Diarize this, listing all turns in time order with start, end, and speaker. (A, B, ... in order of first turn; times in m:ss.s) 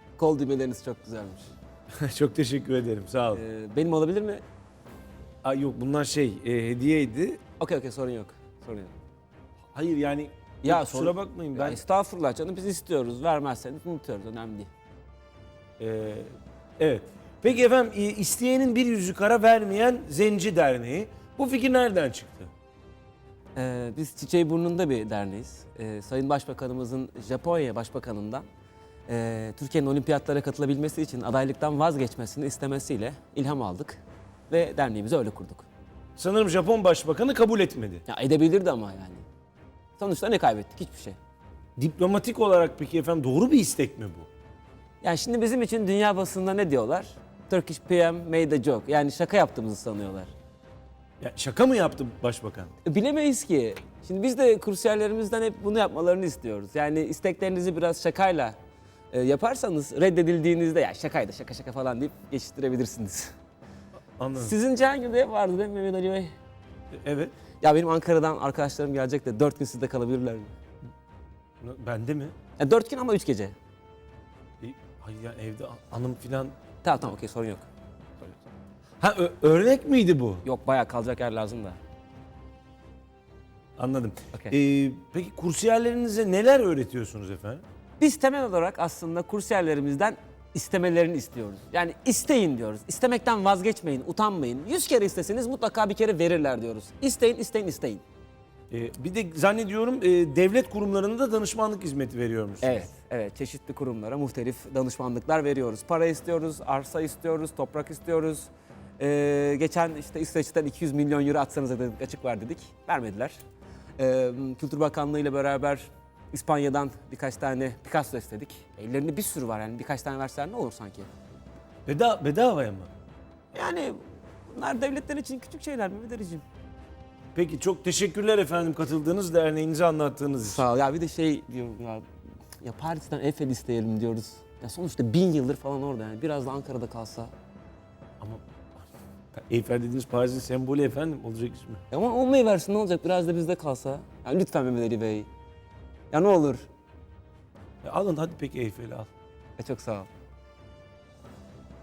0:00.2-0:01.5 A
0:02.0-0:03.4 B
0:03.3-0:04.4 A
0:05.4-0:07.4 B
0:07.6-0:08.9 A
0:09.7-0:11.8 B
0:10.6-0:14.7 A
0:15.8-0:22.5 B
0:23.6-0:28.4 A
0:29.1-0:35.6 A
0:36.2-0:38.0 B
0:38.1-0:39.2 A
0:40.0-0:41.2 A
0:41.8-0:44.3 B
0:45.0-0:50.3 A
0:51.2-0:52.7 B
0:52.8-0:58.6 A
0:59.1-1:03.3 A
1:04.2-1:04.6 B
1:04.4-1:06.3 A
1:06.9-1:07.3 B
1:07.6-1:10.5 A
1:11.6-1:12.3 B
1:12.6-1:13.5 A
1:14.6-1:16.5 B
1:16.8-1:17.6 A
1:19.0-1:20.4 B
1:20.4-1:21.8 A
1:23.8-1:27.6 B
1:28.0-1:38.0 A
1:38.7-1:42.9 B
1:42.6-1:53.4 A
1:54.0-2:01.1 A
2:01.8-2:02.9 B
2:03.5-2:06.4 A
2:07.3-2:10.6 B
2:10.4-2:12.0 A
2:12.6-2:17.3 A
2:18.2-2:21.8 B
2:21.9-2:25.3 A
2:26.1-2:26.7 A
2:27.8-2:29.1 B
2:29.6-2:30.1 A